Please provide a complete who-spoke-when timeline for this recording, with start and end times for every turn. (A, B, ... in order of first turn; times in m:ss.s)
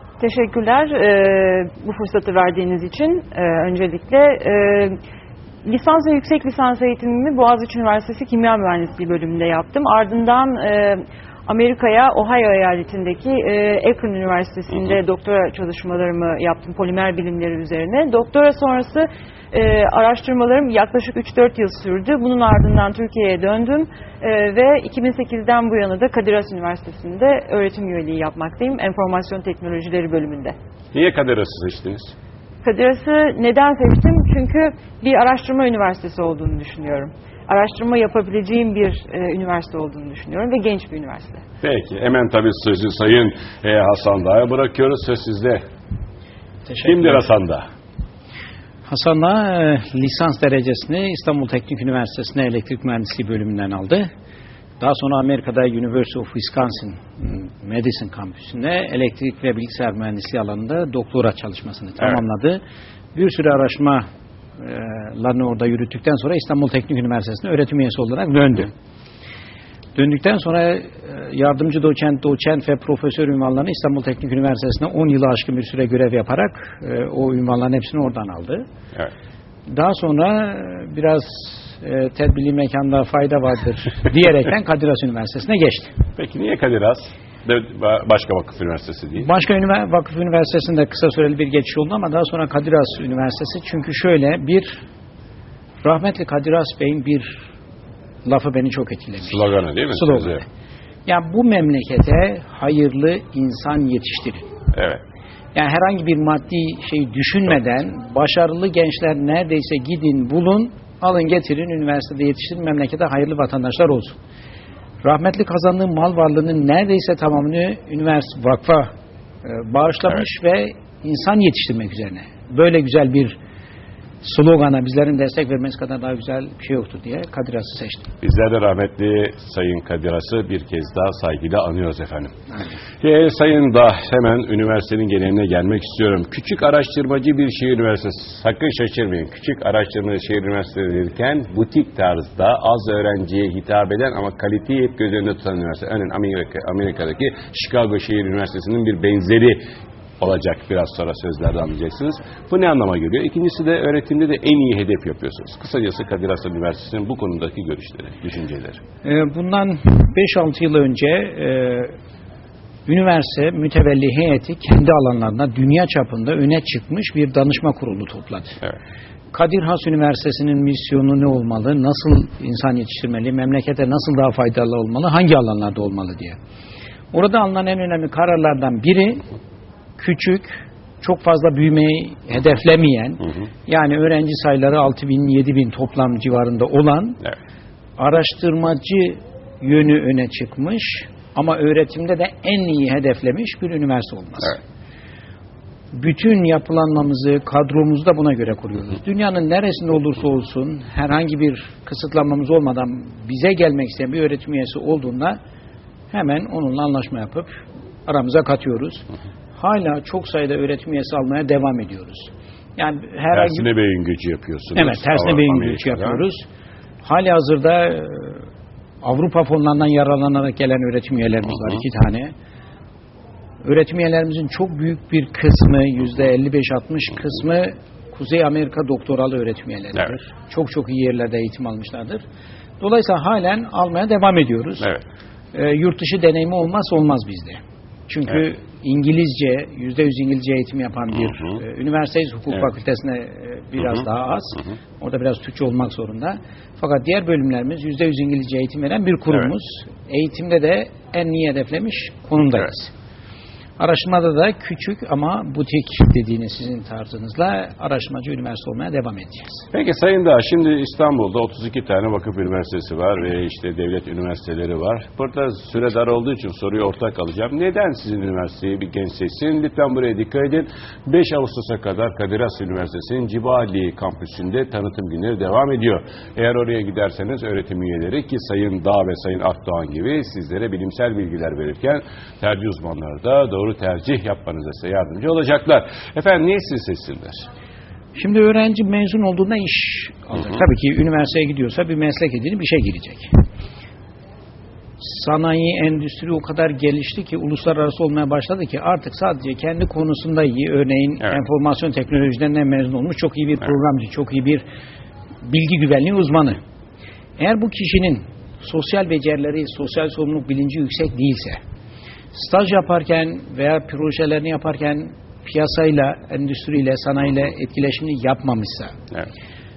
0:00.2-0:05.0 A
0:05.6-0:30.6 A
0:30.9-0:32.1 B
0:32.6-0:41.4 A
0:41.6-0:45.6 B
0:46.7-0:47.2 C
0:46.8-0:47.7 B
0:48.9-0:54.1 C
0:54.8-1:02.6 C
1:03.1-1:04.0 C
1:04.6-1:08.7 C
1:10.0-1:18.6 C
1:19.7-1:25.9 C
1:26.2-1:29.3 B
1:29.2-1:34.8 C
1:35.8-1:37.4 C
1:38.2-1:39.4 C
1:39.2-1:40.4 B
1:39.9-1:40.4 C
1:41.0-1:44.4 C
1:44.7-1:45.0 B
1:45.6-1:54.2 C
1:55.0-1:58.9 C
1:59.4-2:03.4 C
2:04.2-2:08.1 C
2:08.2-2:12.3 B
2:13.0-2:29.6 B
2:30.2-2:38.8 B
2:39.0-2:41.9 C
2:42.9-2:48.6 C
2:49.3-2:56.4 C
2:57.1-2:59.2 C
3:00.0-3:07.2 C
3:08.0-3:14.6 C
3:15.9-3:25.4 C
3:26.1-3:29.1 C
3:29.6-3:33.7 C
3:33.3-3:36.2 B
3:34.8-3:36.4 C
3:37.0-3:38.5 C
3:39.0-3:42.3 C
3:43.6-3:52.2 C
3:52.8-3:54.9 C
3:55.5-4:12.9 C
4:13.8-4:19.6 C
4:19.7-4:47.5 B
4:48.1-4:53.3 C
4:55.0-5:04.6 C
5:05.4-5:06.6 C
5:07.4-5:11.6 C
5:12.3-5:18.9 C